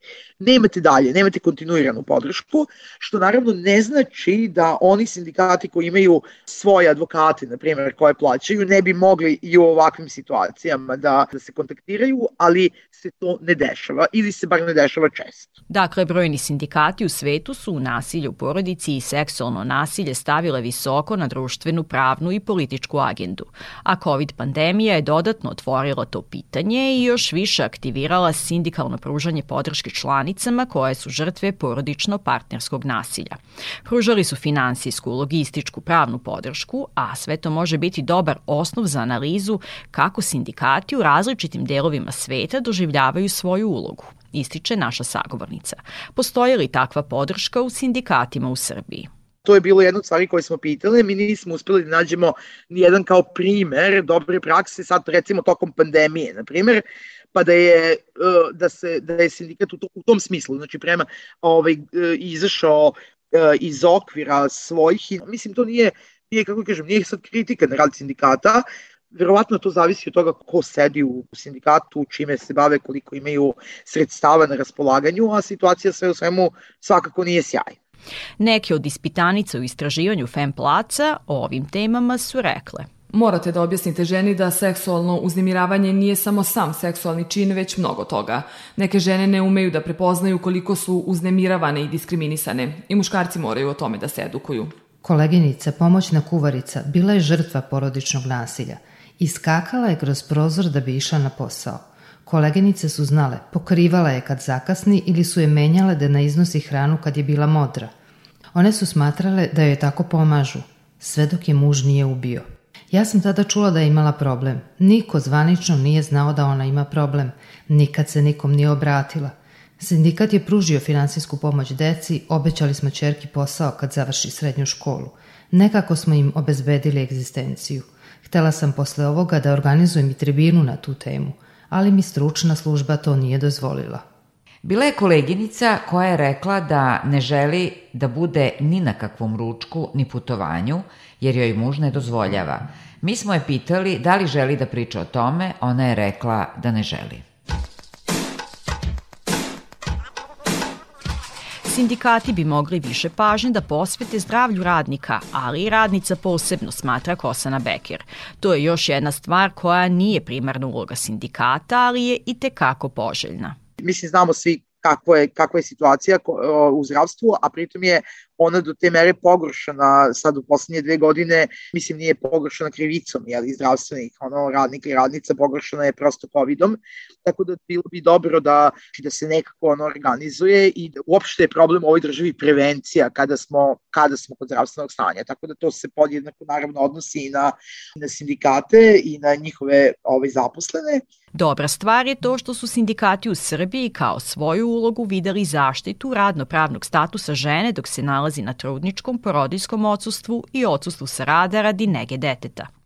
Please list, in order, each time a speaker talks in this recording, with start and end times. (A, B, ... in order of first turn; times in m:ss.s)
0:00.4-0:15.5 A
0:15.7-0:49.1 B
0:49.4-0:56.8 A
0:57.3-1:17.8 A
1:18.4-1:22.9 B
1:23.1-1:34.7 C
1:35.0-1:47.9 D
1:48.5-2:14.0 D
2:14.6-2:27.2 E
2:31.6-2:43.6 B
2:43.8-3:11.0 A
3:11.4-3:22.7 B